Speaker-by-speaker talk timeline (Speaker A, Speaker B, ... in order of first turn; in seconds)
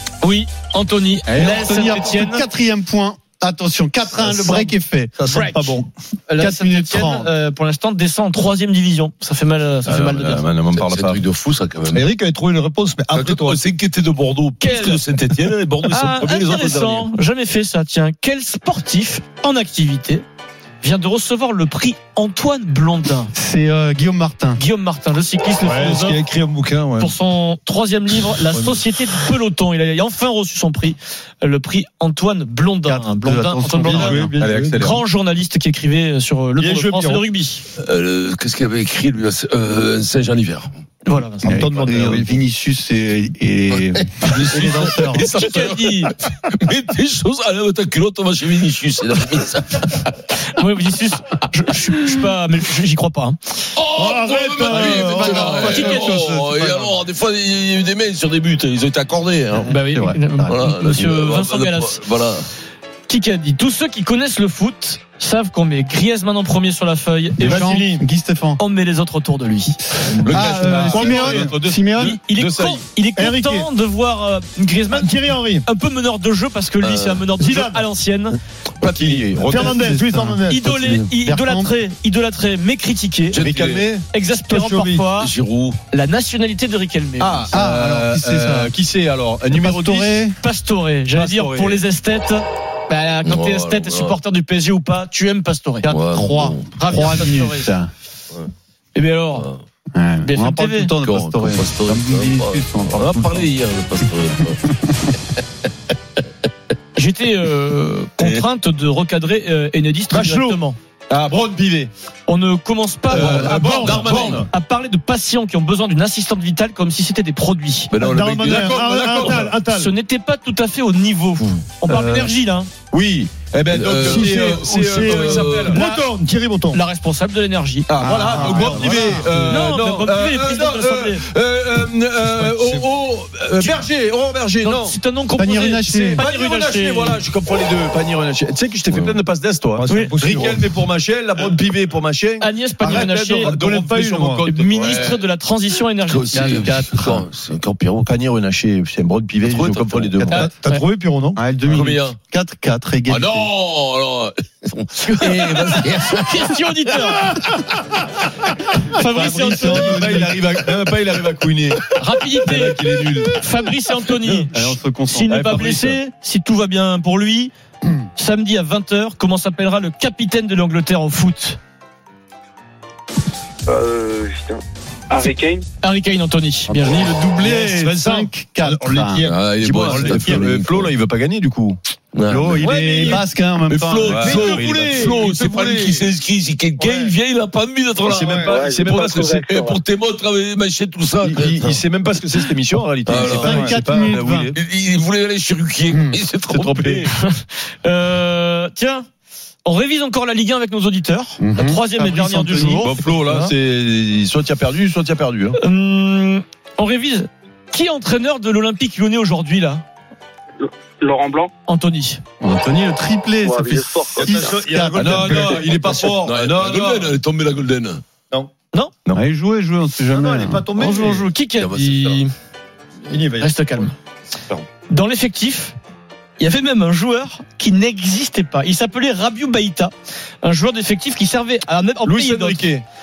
Speaker A: 0.2-2.4, 5.3-5.8, 6.3-10.4, 14.6-15.0, 15.9-20.2, 20.8-23.3, 24.6-26.2, 27.0-37.6, 41.0-41.7, 44.7-46.1, 50.5-53.4, 55.6-56.1, 59.7-62.0, 63.1-67.8, 68.6-69.8, 72.0-78.4, 80.5-83.4, 84.1-85.3, 85.9-87.5, 90.4-97.7, 98.9-99.5, 100.2-100.9, 107.0-110.8, 112.3-117.9, 119.6-122.7, 125.2-126.1, 126.7-128.0, 128.9-131.2, 133.6-133.9, 134.6-137.2, 139.9-140.2, 142.4-143.6, 144.4-146.8, 150.3-150.8, 155.0-157.3, 158.9-160.0, 162.0-162.8, 163.3-167.5, 168.2-171.6, 175.8-177.1, 197.1-199.1, 199.7-203.5, 205.6-209.8, 211.7-212.2, 220.7-222.3, 223.4-223.9, 224.9-225.8, 226.4-232.7
Speaker B: 1.3-5.1, 6.4-7.3, 23.4-24.6, 32.9-34.4, 41.4-45.3, 54.6-57.0, 59.7-60.5, 67.4-68.6, 70.0-72.2, 79.5-81.7, 87.5-88.7, 89.5-90.4, 95.8-97.9, 100.0-103.5, 121.9-122.3, 128.0-129.3, 135.4-136.2, 146.3-147.3, 150.2-150.5, 151.4-153.5, 159.3-160.3, 164.5-165.6, 177.0-179.3, 182.3-184.4, 193.1-194.5, 195.9-196.2, 201.4-203.0, 212.4-215.6, 219.1-220.7
Speaker C: 4.2-5.9, 11.9-13.6, 25.6-27.1, 28.5-28.8, 33.8-34.9, 36.6-37.2, 41.4-42.4, 53.9-55.9, 67.4-68.0, 70.2-71.5, 73.2-73.7, 74.9-75.7, 77.4-77.8, 79.0-80.8, 84.5-85.1, 110.1-110.6, 113.1-114.5, 118.0-119.9, 123.9-126.8, 128.0-129.8, 132.2-133.0, 139.7-140.8, 142.8-144.5, 150.3-151.4, 159.1-160.9, 176.8-180.7, 182.6-183.2, 184.2-186.1, 186.8-187.1, 188.3-188.7, 214.2-216.2, 220.1-221.3, 223.1-223.9
Speaker D: 9.8-12.1, 13.1-17.1, 37.8-40.7, 44.0-50.1, 53.8-59.8, 60.5-62.5, 70.2-71.5, 72.4-72.8, 76.8-77.3, 78.8-79.8, 83.3-83.9, 85.2-85.8, 93.2-94.2, 95.8-96.7, 101.0-104.7, 113.1-114.5, 117.9-119.5, 123.7-125.8, 138.9-139.2, 144.7-145.2, 146.1-148.1, 149.4-150.3, 151.7-152.2, 153.1-157.3, 179.2-180.9, 182.1-183.2, 183.7-191.9, 193.1-193.8, 194.5-197.1, 216.2-218.0, 221.6-222.2
Speaker E: 10.3-11.2, 34.4-35.0, 70.6-71.8, 78.9-79.4, 83.4-83.8, 87.2-90.2, 91.1-91.8, 111.1-111.9, 122.9-125.5, 127.9-135.0, 135.9-145.0, 148.0-150.4, 159.9-161.8, 162.6-163.3, 165.3-166.0, 179.6-181.8, 184.1-185.1, 188.1-189.3, 191.2-194.6, 196.5-197.1, 202.7-205.6, 215.0-216.7, 232.1-232.8
Speaker F: 173.7-175.6, 188.4-189.8, 210.6-211.5, 213.4-214.6